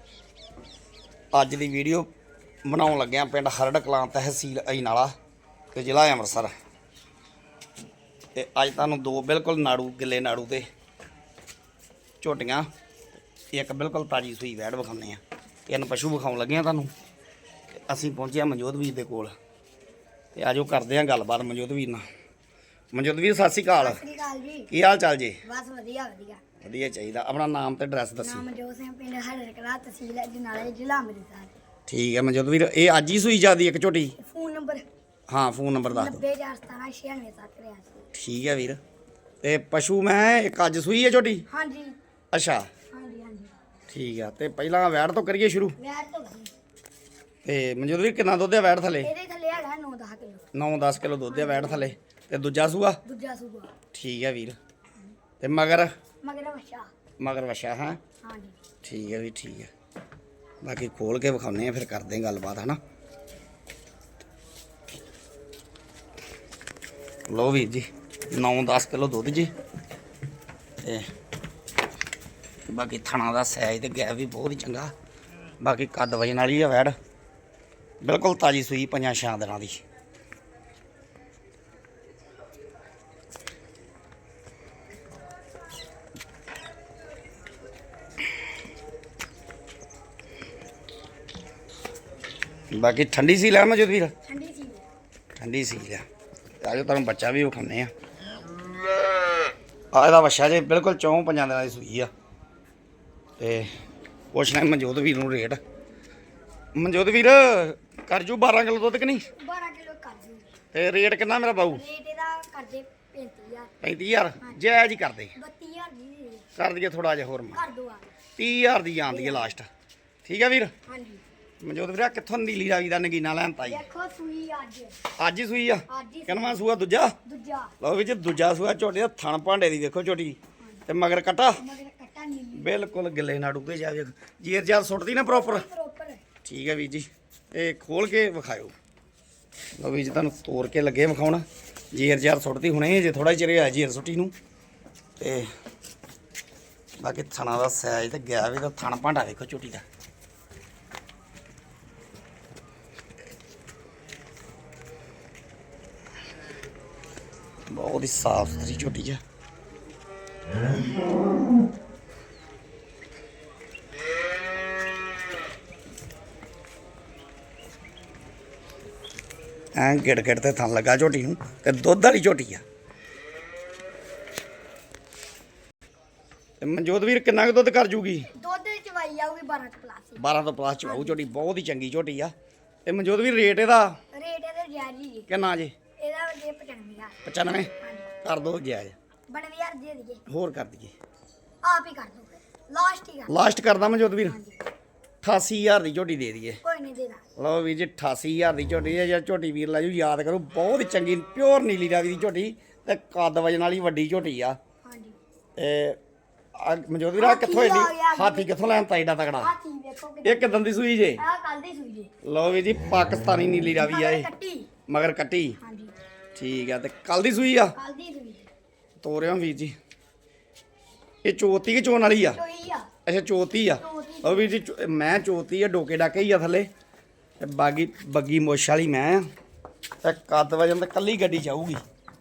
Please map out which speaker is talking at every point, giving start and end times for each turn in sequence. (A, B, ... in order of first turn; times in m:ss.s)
0:01.3-0:02.1 A
0:02.6-0:05.1 A
0:05.7-0:06.5 A
0:08.3-0:10.6 A
0:12.2-0:12.7 A
0:13.5-0:16.9 A
0:17.8-0:19.3 A
0:20.4-0:22.0 A
0:22.9-0:24.0 A
0:23.8-0:24.7 B
0:24.7-0:25.4 A
0:25.4-0:26.4 B
0:26.6-0:28.4 A
0:28.2-0:31.5 B
0:31.9-0:34.2 A
0:34.2-0:34.8 B
0:35.3-0:36.2 A
0:35.9-0:38.0 B
0:38.1-0:38.8 A
0:39.4-0:41.4 A
0:41.5-0:42.0 B
0:42.3-0:42.7 A
0:42.9-0:43.5 B
0:43.9-0:45.8 A
0:45.8-0:46.5 B
0:47.4-0:49.1 A
0:49.0-0:50.4 B
0:50.5-0:53.0 A
0:51.3-0:51.9 B
0:53.0-0:53.7 B
0:53.9-0:54.6 A
0:55.4-0:55.9 A
0:56.2-0:56.9 B
0:57.2-0:58.0 A
0:58.2-0:58.6 B
0:58.8-0:59.7 A
1:00.6-1:02.8 A
1:07.3-1:09.5 A
1:10.8-1:11.1 A
1:12.7-1:14.9 A
1:15.6-1:16.9 A
1:18.0-1:19.8 A
1:32.7-1:34.1 A
1:34.2-1:34.8 B
1:35.4-1:36.0 A
1:36.6-1:37.9 A
1:39.9-1:42.1 A
1:43.4-1:43.7 A
1:44.3-1:45.6 A
1:46.7-1:49.3 A
1:49.3-1:50.6 B
1:50.7-1:51.8 A
1:51.6-1:53.7 B
1:53.8-1:55.3 A
1:55.3-1:56.5 B
1:56.5-1:57.6 A
1:57.5-1:58.1 B
1:58.4-1:59.7 A
1:59.1-1:59.5 B
2:00.2-2:00.7 A
2:00.8-2:01.2 B
2:01.6-2:03.8 A
2:03.6-2:05.0 B
2:05.2-2:07.1 A
2:05.9-2:06.6 B
2:07.2-2:07.7 B
2:07.8-2:11.6 A
2:11.6-2:12.9 B
2:12.5-2:15.6 A
2:15.3-2:16.2 B
2:16.4-2:18.7 A
2:19.8-2:24.3 A
2:25.2-2:25.5 A
2:27.0-2:29.8 A
2:37.7-2:39.2 A
2:49.7-2:52.6 A
2:56.6-2:58.3 A
2:58.3-3:00.2 B
3:00.2-3:02.3 A
3:00.8-3:01.2 B
3:02.8-3:04.0 A
3:04.1-3:05.3 B
3:05.3-3:05.7 A
3:06.0-3:07.2 B
3:07.2-3:08.9 A
3:07.8-3:08.1 B
3:09.3-3:10.2 B
3:10.3-3:10.9 A
3:11.6-3:13.4 B
3:13.3-3:14.4 A
3:14.2-3:14.6 B
3:15.2-3:16.6 A
3:16.6-3:17.2 B
3:17.4-3:24.6 A
3:24.8-3:25.2 B
3:25.6-3:26.0 A
3:26.6-3:29.5 A
3:27.2-3:28.6 B
3:29.4-3:30.6 B
3:30.2-3:31.2 A
3:31.2-3:32.1 B
3:32.2-3:34.3 A
3:33.8-3:34.7 B
3:34.9-3:35.6 A
3:35.6-3:35.9 B
3:36.3-3:37.7 A
3:37.7-3:38.5 B
3:39.0-3:39.7 A
3:41.2-3:42.4 A
3:42.3-3:42.9 B
3:43.0-3:46.7 A
3:43.8-3:44.6 B
3:47.4-3:49.2 A
3:50.0-3:51.8 A